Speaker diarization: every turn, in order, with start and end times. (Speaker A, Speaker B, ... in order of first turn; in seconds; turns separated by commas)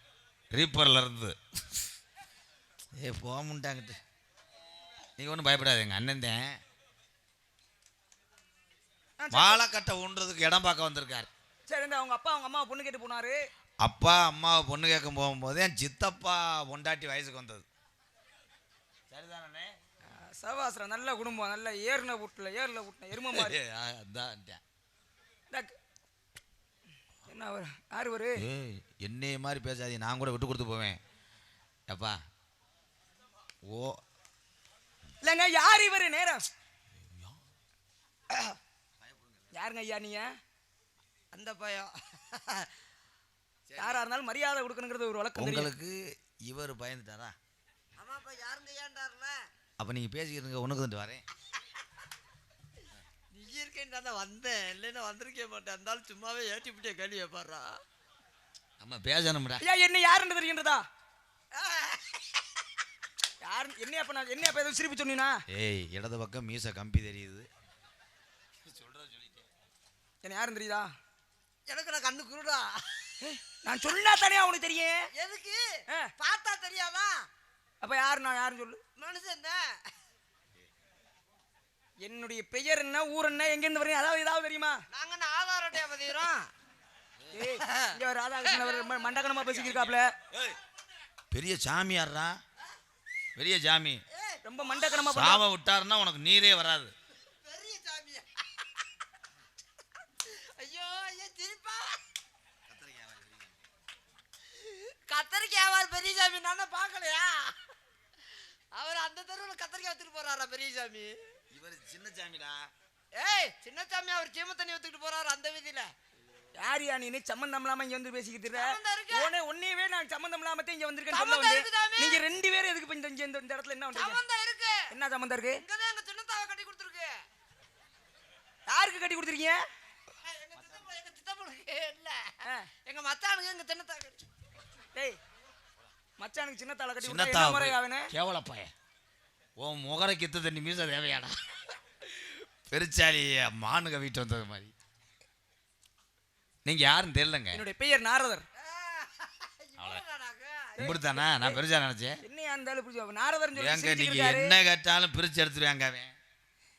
Speaker A: 0.5-1.4, Speaker A: 3.0-4.0, Speaker A: 5.2-6.6, Speaker B: 9.2-9.6, Speaker A: 9.3-11.3, Speaker B: 11.7-13.4, Speaker A: 13.8-17.7, Speaker A: 19.1-19.8, Speaker B: 20.1-23.6, Speaker A: 23.1-24.6, Speaker B: 27.3-28.4, Speaker A: 28.4-31.0, Speaker A: 31.9-32.2, Speaker A: 33.7-34.0, Speaker B: 35.2-36.4, Speaker A: 37.0-37.4, Speaker A: 39.0-39.5, Speaker B: 39.5-40.3, Speaker C: 41.3-42.7, Speaker A: 43.7-44.0, Speaker B: 43.8-45.7, Speaker A: 45.4-47.4, Speaker C: 48.0-49.4, Speaker A: 49.8-51.2, Speaker C: 53.3-57.8, Speaker A: 58.8-59.6, Speaker B: 59.6-60.8, Speaker C: 61.5-62.4, Speaker B: 63.4-65.4, Speaker A: 65.5-67.5, Speaker A: 68.6-69.5, Speaker B: 70.2-70.9, Speaker C: 71.7-73.1, Speaker B: 73.2-75.0, Speaker C: 75.1-77.3, Speaker B: 77.8-78.8, Speaker C: 79.0-79.9, Speaker B: 82.0-84.8, Speaker C: 84.9-86.5, Speaker B: 87.3-90.1, Speaker C: 87.5-89.9, Speaker A: 90.3-90.6, Speaker A: 91.3-92.4, Speaker A: 93.4-94.0, Speaker C: 94.1-95.0, Speaker B: 94.5-95.4, Speaker A: 95.0-96.9, Speaker C: 97.3-98.7, Speaker C: 100.2-102.0, Speaker A: 102.7-103.6, Speaker C: 104.9-107.7, Speaker C: 108.7-111.2, Speaker A: 111.5-112.7, Speaker C: 113.2-115.9, Speaker B: 116.6-124.2, Speaker C: 118.5-119.3, Speaker C: 121.1-122.2, Speaker C: 123.9-124.8, Speaker B: 124.9-125.6, Speaker C: 125.5-127.1, Speaker B: 128.7-129.6, Speaker C: 130.2-134.2, Speaker B: 136.2-138.1, Speaker A: 137.0-138.7, Speaker A: 139.6-144.7, Speaker A: 146.7-147.6, Speaker B: 147.5-148.5, Speaker C: 148.6-151.2, Speaker A: 149.8-150.0, Speaker B: 150.8-151.6, Speaker A: 150.8-152.2, Speaker B: 152.2-154.6, Speaker A: 153.6-156.1